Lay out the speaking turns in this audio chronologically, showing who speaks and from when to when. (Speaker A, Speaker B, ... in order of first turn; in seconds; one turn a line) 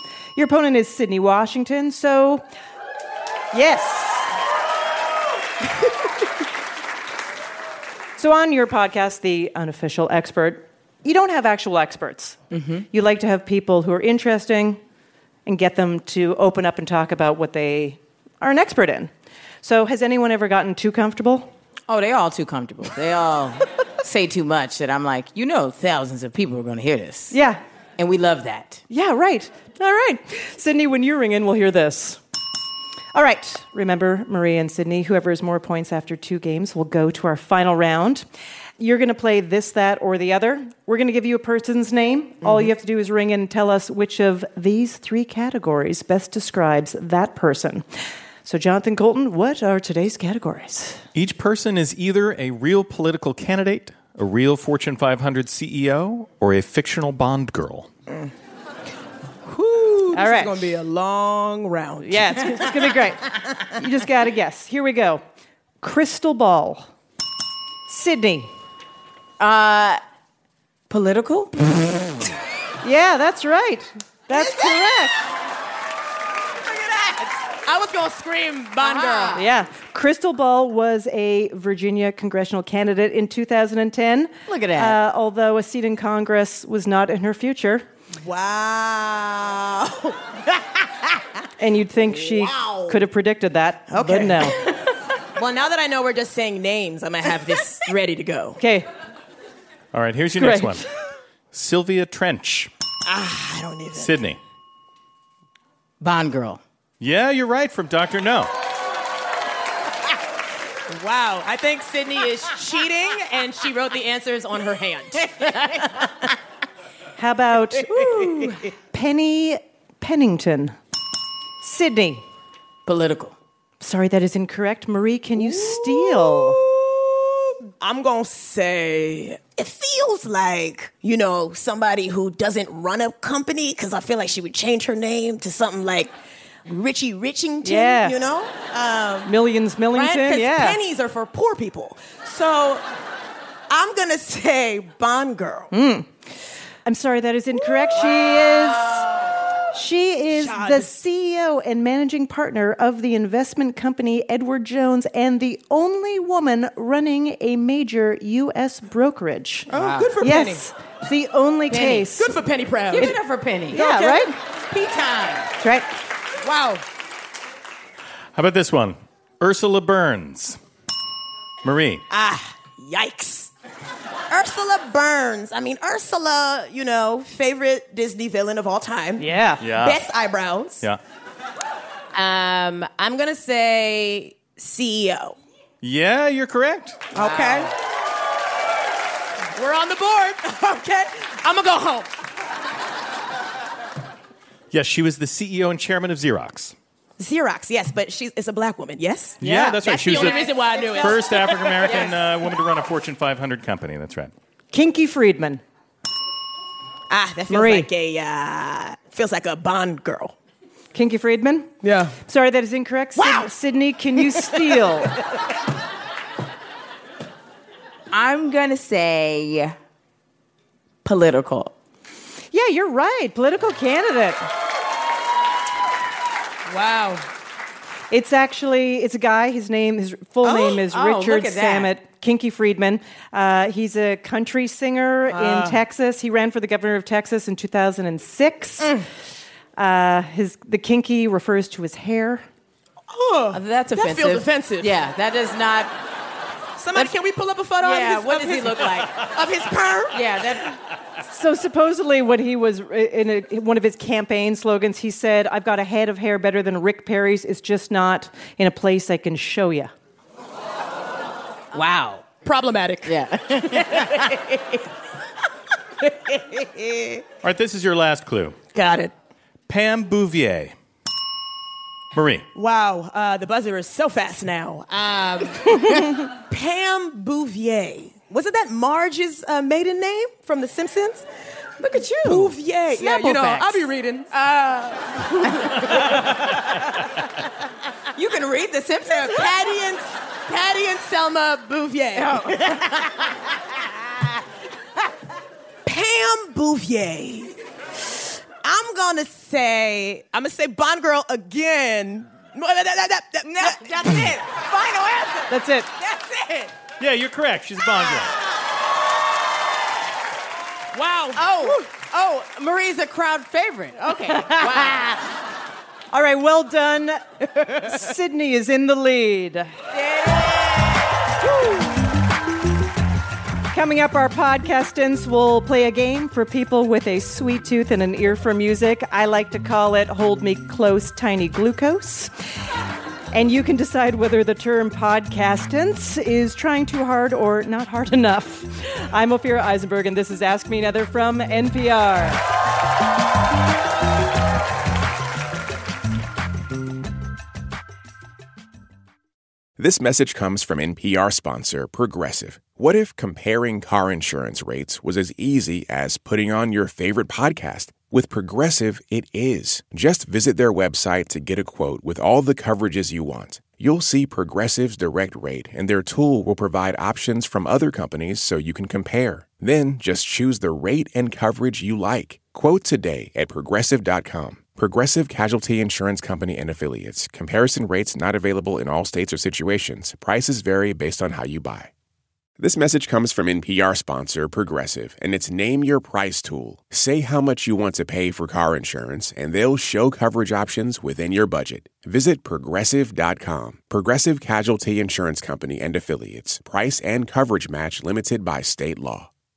Speaker A: 0.3-2.4
Speaker A: 3.5-4.3
Speaker A: 8.2-14.8
Speaker B: 12.5-12.8
Speaker A: 15.4-19.1
Speaker A: 19.6-21.5
Speaker B: 21.9-27.4
Speaker A: 27.3-27.6
Speaker B: 28.0-28.8
Speaker A: 28.9-32.2
Speaker A: 33.1-38.2
Speaker A: 38.8-47.9
Speaker A: 48.4-51.0
Speaker C: 51.1-57.9
Speaker D: 59.5-62.9
Speaker A: 60.1-60.7
Speaker A: 62.0-65.2
Speaker A: 65.8-66.9
Speaker A: 67.9-68.5
Speaker B: 69.4-70.0
Speaker B: 70.9-71.5
Speaker A: 72.8-75.2
Speaker D: 74.3-74.9
Speaker D: 76.6-79.4
Speaker B: 78.8-79.4
Speaker A: 79.3-87.8
Speaker B: 84.5-85.0
Speaker D: 88.2-91.2
Speaker A: 91.6-94.6
Speaker D: 92.1-93.0
Speaker D: 93.9-98.6
Speaker A: 98.6-98.8
Speaker C: 99.9-100.8
Speaker A: 100.3-100.8
Speaker C: 101.5-102.7
Speaker D: 103.0-104.1
Speaker C: 103.9-104.4
Speaker B: 106.0-106.6
Speaker C: 107.0-108.5
Speaker D: 110.9-116.0
Speaker A: 117.2-120.7
Speaker D: 117.8-118.6
Speaker A: 121.6-122.2
Speaker B: 122.8-123.3
Speaker A: 123.8-126.6
Speaker D: 125.4-136.1
Speaker D: 136.7-139.3
Speaker A: 137.6-138.2
Speaker A: 139.3-140.8
Speaker D: 139.9-142.8
Speaker D: 143.7-145.7
Speaker A: 145.7-146.1
Speaker A: 146.8-149.1
Speaker D: 147.9-149.3
Speaker A: 149.7-159.7
Speaker D: 150.3-150.9
Speaker D: 159.7-160.7
Speaker B: 159.7-160.1
Speaker A: 160.2-162.3
Speaker B: 161.7-162.1
Speaker D: 162.1-163.2
Speaker B: 162.9-163.8
Speaker D: 163.7-165.5
Speaker A: 163.7-164.3
Speaker A: 165.6-165.9
Speaker D: 166.4-166.8
Speaker C: 168.3-170.6
Speaker C: 171.6-172.0
Speaker D: 172.1-173.5
Speaker D: 174.3-180.8
Speaker A: 179.2-179.6
Speaker C: 179.6-180.0
Speaker D: 182.1-185.3
Speaker C: 185.8-187.0
Speaker D: 187.1-187.7
Speaker B: 187.1-187.7
Speaker D: 189.5-192.1
Speaker C: 194.7-196.7
Speaker D: 197.2-202.2
Speaker C: 199.4-204.3
Speaker A: 199.4-200.4
Speaker A: 204.7-205.6
Speaker D: 207.1-210.3
Speaker A: 207.5-207.9
Speaker A: 210.9-215.2
Speaker D: 211.8-212.2
Speaker D: 213.2-213.5
Speaker D: 214.2-214.8
Speaker B: 218.1-219.7
Speaker B: 221.0-221.7
Speaker A: 222.5-224.5
Speaker D: 226.7-227.2
Speaker A: 228.1-239.0
Speaker B: 230.4-231.9
Speaker D: 235.3-235.8
Speaker A: 239.8-242.4
Speaker D: 243.1-244.9
Speaker B: 243.5-245.9
Speaker D: 246.8-250.2
Speaker B: 247.8-249.3
Speaker B: 250.1-250.8
Speaker A: 251.3-259.9
Speaker B: 261.7-262.2
Speaker D: 262.3-264.6
Speaker B: 263.1-264.4
Speaker D: 266.0-267.2
Speaker C: 267.4-268.6
Speaker D: 268.7-269.1
Speaker C: 269.7-270.7
Speaker C: 272.1-272.4
Speaker D: 272.5-281.2
Speaker B: 281.8-282.5
Speaker D: 282.2-286.2
Speaker A: 283.0-283.8
Speaker B: 288.1-289.5
Speaker D: 289.0-292.9
Speaker B: 292.2-292.8
Speaker D: 295.8-297.5
Speaker D: 298.6-306.7
Speaker B: 303.5-304.3
Speaker A: 305.5-305.9
Speaker C: 307.0-308.3
Speaker D: 310.9-311.8
Speaker B: 311.4-315.1
Speaker A: 314.4-314.8
Speaker A: 316.1-319.7
Speaker B: 320.2-320.5
Speaker A: 323.7-332.3
Speaker A: 333.3-342.4
Speaker E: 349.8-381.9
Speaker E: 382.6-399.3